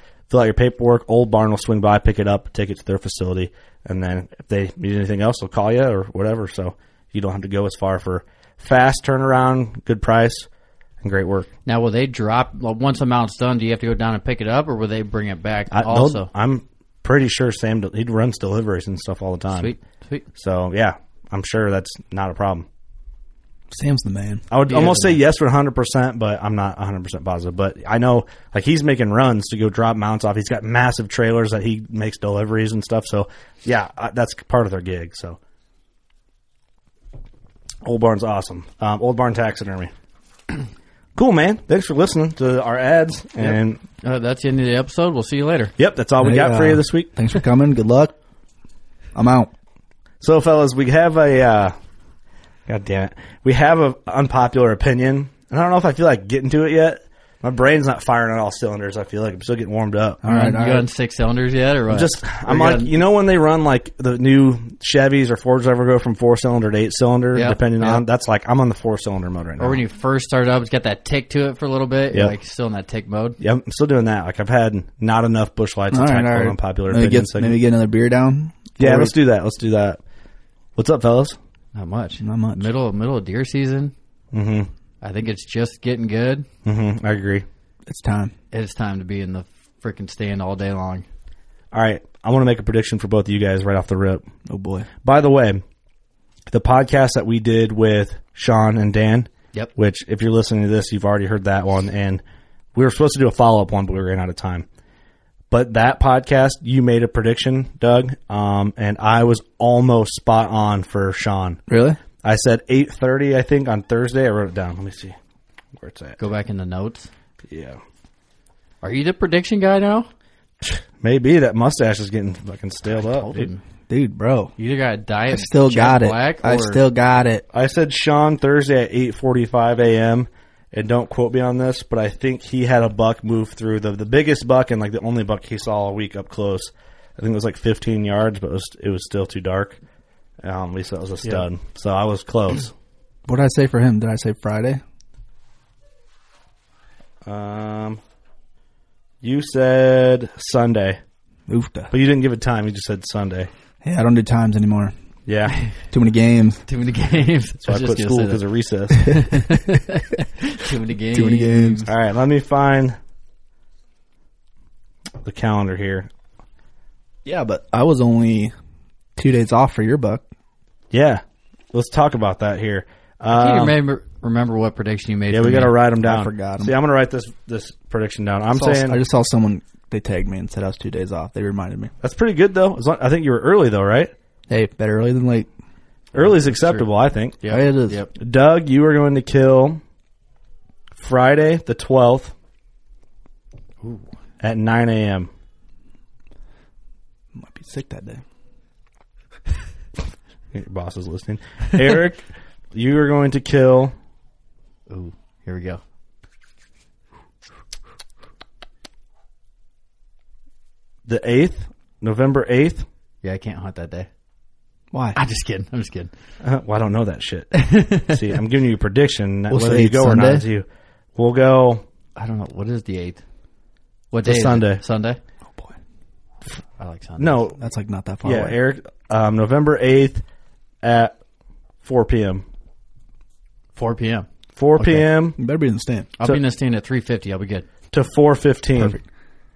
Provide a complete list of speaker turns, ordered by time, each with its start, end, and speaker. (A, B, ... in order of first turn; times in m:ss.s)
0:00.3-0:10.5 A
0:11.0-0:11.5 A
0:11.7-0:16.3 B
0:15.7-0:19.7 A
0:19.5-0:20.2 B
0:20.4-0:22.7 A
0:23.7-0:24.5 C
0:24.5-0:35.4 A
0:24.7-0:25.2 B
0:37.8-0:39.9 A
0:41.2-0:43.8 A
0:43.5-0:45.7 B
0:45.8-0:47.1 A
0:46.2-0:48.2 C
0:49.2-0:49.5 C
0:50.2-0:51.8 A
0:52.7-1:00.2 A
1:00.2-1:00.9 C
1:00.3-1:02.9 B
1:01.9-1:09.8 A
1:07.3-1:08.0 B
1:09.6-1:13.4 B
1:13.4-1:17.6 A
1:15.9-1:19.2 C
1:18.8-1:20.0 A
1:20.8-1:21.4 A
1:21.8-1:23.9 B
1:22.2-1:22.7 C
1:24.3-1:24.7 A
1:25.0-1:26.5 B
1:26.6-1:27.5 A
1:27.9-1:28.3 C
1:28.5-1:31.0 B
1:31.7-1:34.3 A
1:34.5-1:34.9 C
1:35.0-1:35.6 A
1:36.5-1:42.2 A
1:42.8-1:44.7 A
1:45.5-1:51.6 A
1:51.7-1:52.0 C
1:52.2-1:55.2 A
1:55.8-1:56.2 A
1:56.2-1:57.1 B
1:57.5-1:57.8 A
1:58.8-2:00.1 B
2:00.6-2:03.5 A
2:03.0-2:03.6 B
2:03.9-2:04.5 C
2:04.6-2:06.8 B
2:05.3-2:07.4 C
2:07.5-2:19.8 A
2:20.4-2:22.7 A
2:23.3-2:24.8 C
2:27.3-2:28.0 A
2:29.2-2:31.0 A
2:31.5-2:31.9 C
2:31.9-2:33.5 A
2:33.8-2:34.9 C
2:35.3-2:35.6 A
2:35.9-2:36.6 C
2:36.7-2:38.4 B
2:37.6-2:39.2 A
2:39.0-2:41.9 B
2:41.1-2:41.9 C
2:41.9-2:43.0 A
2:45.2-2:46.1 A
2:47.2-2:48.5 C
2:49.2-2:50.2 C
2:50.9-2:51.2 A
2:51.7-2:53.7 A
2:53.3-2:55.8 B
2:55.3-2:59.0 A
2:56.0-2:56.7 C
2:58.5-3:01.9 C
3:02.0-3:04.1 A
3:04.5-3:05.5 C
3:06.1-3:07.4 A
3:06.2-3:06.8 B
3:07.4-3:08.1 B
3:07.5-3:08.0 C
3:08.2-3:09.8 A
3:11.0-3:12.3 A
3:14.4-3:15.3 A
3:17.3-3:18.2 C
3:20.5-3:22.2 A
3:22.7-3:23.9 A
3:24.9-3:25.8 B
3:31.1-3:32.9 A
3:33.2-3:34.1 B
3:34.9-3:35.2 C
3:35.2-3:36.1 B
3:36.4-3:41.8 A
3:37.6-3:38.1 B
3:39.5-3:40.5 C
3:42.2-3:43.2 B
3:44.1-3:45.2 B
3:44.2-3:44.8 A
3:45.5-3:45.8 C
3:46.8-3:47.4 B
3:47.2-3:47.6 A
3:47.6-3:48.6 C
3:48.2-3:50.2 A
3:50.8-3:51.1 A
3:51.8-3:52.4 A
3:53.8-3:54.3 B
3:54.6-3:55.4 A
3:55.4-3:56.1 C
3:56.2-3:57.7 B
3:57.9-3:59.0 A
3:58.8-3:59.0 C